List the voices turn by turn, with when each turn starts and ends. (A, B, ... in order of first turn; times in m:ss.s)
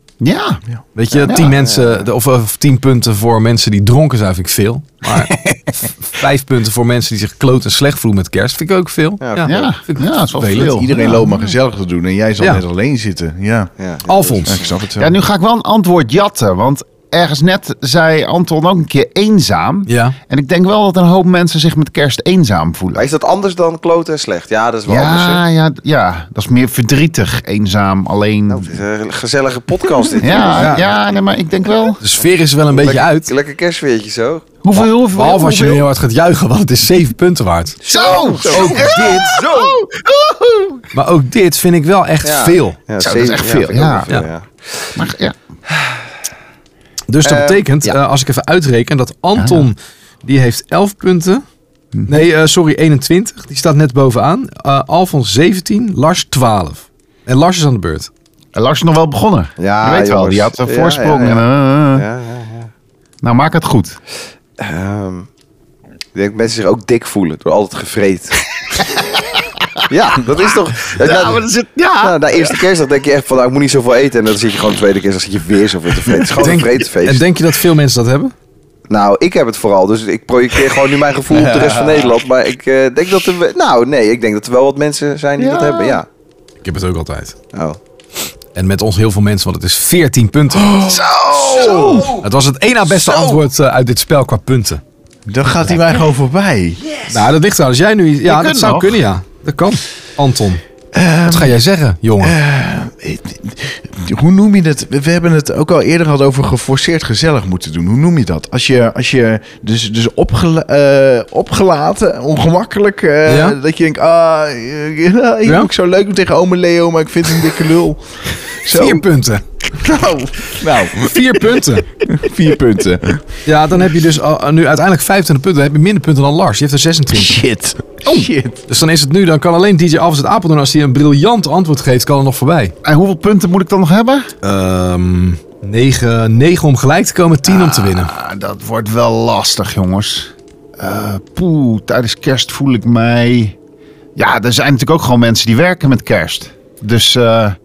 0:00.2-0:00.6 A
0:01.0-0:10.8 B
0:01.2-0:02.1 C
0:01.3-0:01.6 A
0:05.1-0:05.7 A
0:09.2-0:09.7 C
0:09.4-0:11.4 A
0:10.5-0:13.7 D
0:13.8-0:14.7 C
0:14.1-0:14.6 B
0:14.4-0:15.2 D
0:15.0-0:23.1 A
0:19.9-0:20.2 B
0:22.9-0:25.4 C
0:24.9-0:28.7 A
0:28.5-0:31.0 C
0:30.2-0:32.0 A
0:30.6-0:31.0 B
0:32.0-0:33.3 B
0:32.7-0:34.5 C
0:34.6-0:35.8 A
0:34.7-0:37.8 B
0:37.8-0:39.8 C
0:37.9-0:40.8 A
0:40.9-0:42.8 B
0:42.2-0:44.5 C
0:43.0-0:44.1 A
0:45.0-0:45.3 A
0:47.1-0:51.4 B
0:47.2-0:48.0 C
0:49.4-0:49.7 A
0:51.9-0:52.2 A
0:52.0-0:58.1 B
0:58.5-1:02.0 A
0:59.6-1:02.7 C
1:03.2-1:04.0 A
1:04.6-1:05.3 C
1:06.1-1:08.4 C
1:08.6-1:09.8 A
1:09.9-1:11.5 C
1:10.9-1:12.6 A
1:12.0-1:17.3 C
1:16.1-1:16.4 A
1:16.3-1:18.3 B
1:18.9-1:26.1 C
1:21.3-1:22.2 D
1:25.4-1:26.0 A
1:26.6-1:27.4 B
1:28.5-1:30.7 B
1:30.5-1:32.0 D
1:30.9-1:32.2 A
1:31.2-1:32.2 C
1:32.1-1:34.8 B
1:32.8-1:33.4 C
1:35.3-1:36.9 D
1:37.1-1:40.6 B
1:38.2-1:39.0 A
1:40.9-1:41.6 D
1:41.2-1:42.4 B
1:42.2-1:59.0 D
1:53.3-1:53.6 B
1:55.4-1:55.7 B
1:58.7-1:59.4 B
1:59.8-2:01.6 D
2:01.0-2:01.9 B
2:02.1-2:03.2 D
2:03.4-2:07.4 B
2:07.1-2:08.6 D
2:08.7-2:12.7 B
2:12.8-2:14.3 A
2:14.4-2:18.1 B
2:17.4-2:23.6 A
2:24.2-2:27.6 A